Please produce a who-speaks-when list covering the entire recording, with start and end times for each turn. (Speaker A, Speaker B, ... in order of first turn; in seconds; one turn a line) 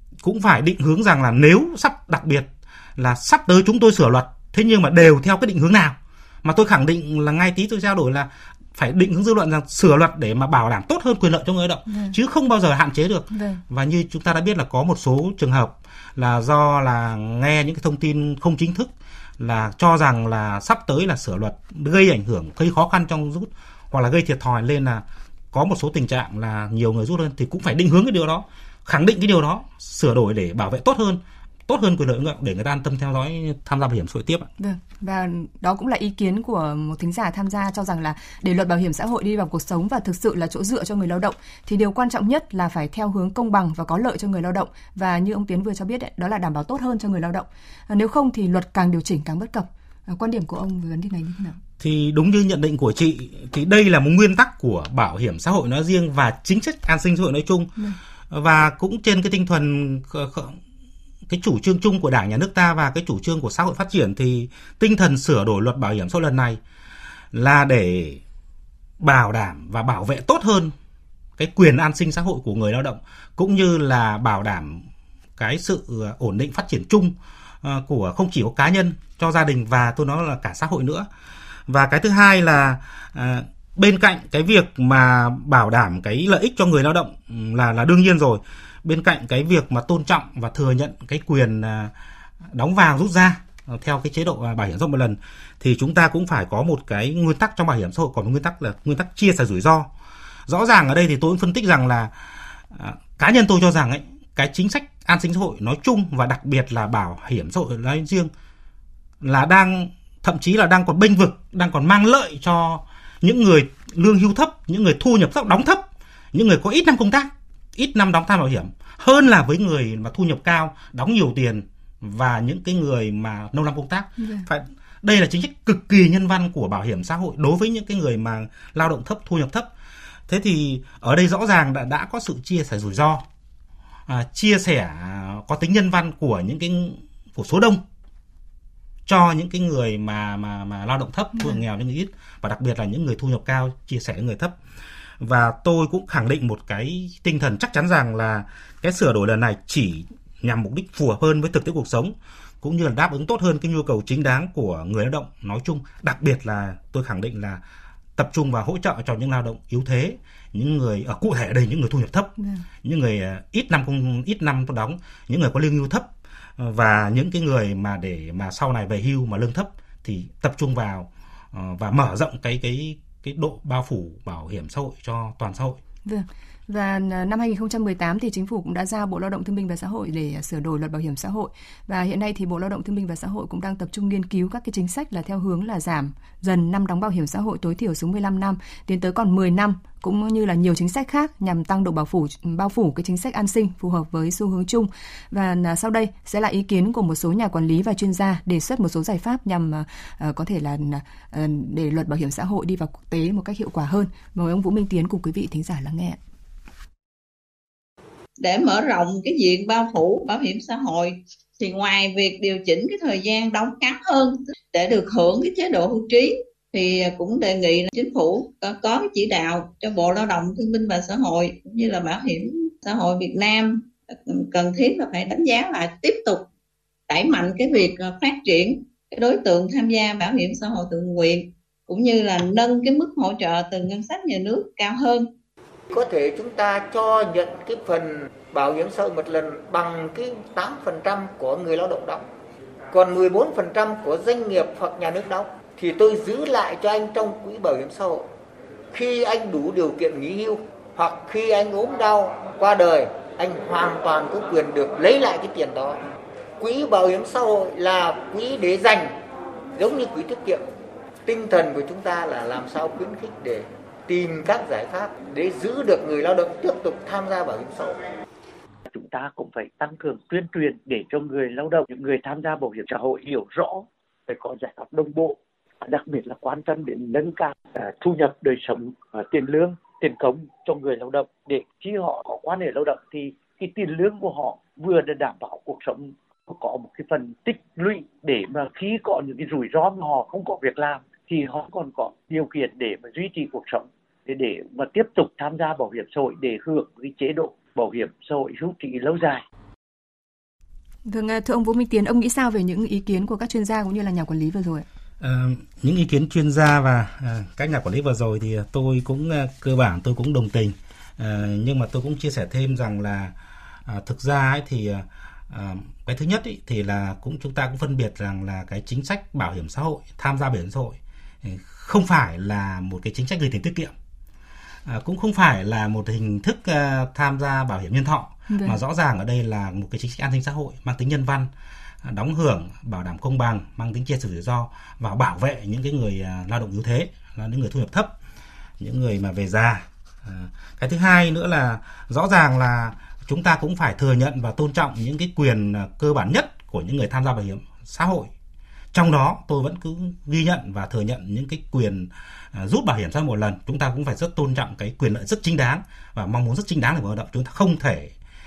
Speaker A: 0.2-34.5
Speaker B: 11.9-12.2
Speaker B: 13.3-13.6
Speaker B: 34.6-51.6
Speaker A: 51.8-57.7
Speaker A: 58.3-60.6
Speaker A: 61.3-66.6
Speaker A: 67.3-68.2
Speaker A: 69.0-70.7
Speaker A: 71.4-81.1
Speaker A: 81.7-91.9
Speaker A: 92.4-99.9
Speaker A: 100.5-102.1
Speaker A: 102.7-108.3
Speaker A: 109.2-129.7
Speaker B: 124.2-124.5
Speaker A: 130.3-133.2
Speaker A: 134.1-137.8
Speaker A: 139.1-144.6
Speaker A: 145.2-157.6
Speaker A: 158.2-175.8
Speaker B: 162.4-162.7
Speaker B: 176.1-206.2
Speaker C: 208.4-226.4
Speaker C: 227.1-235.3
Speaker D: 235.9-242.2
Speaker D: 242.9-248.3
Speaker D: 248.9-256.0
Speaker D: 256.6-259.1
Speaker D: 259.8-260.6
Speaker D: 261.3-268.0
Speaker E: 268.9-299.4
Speaker B: 301.1-304.9
Speaker A: 305.2-313.3
Speaker A: 313.9-323.9
Speaker A: 324.9-331.5
Speaker B: 328.5-328.8
Speaker A: 332.0-338.1
Speaker A: 338.8-348.3
Speaker A: 348.9-358.1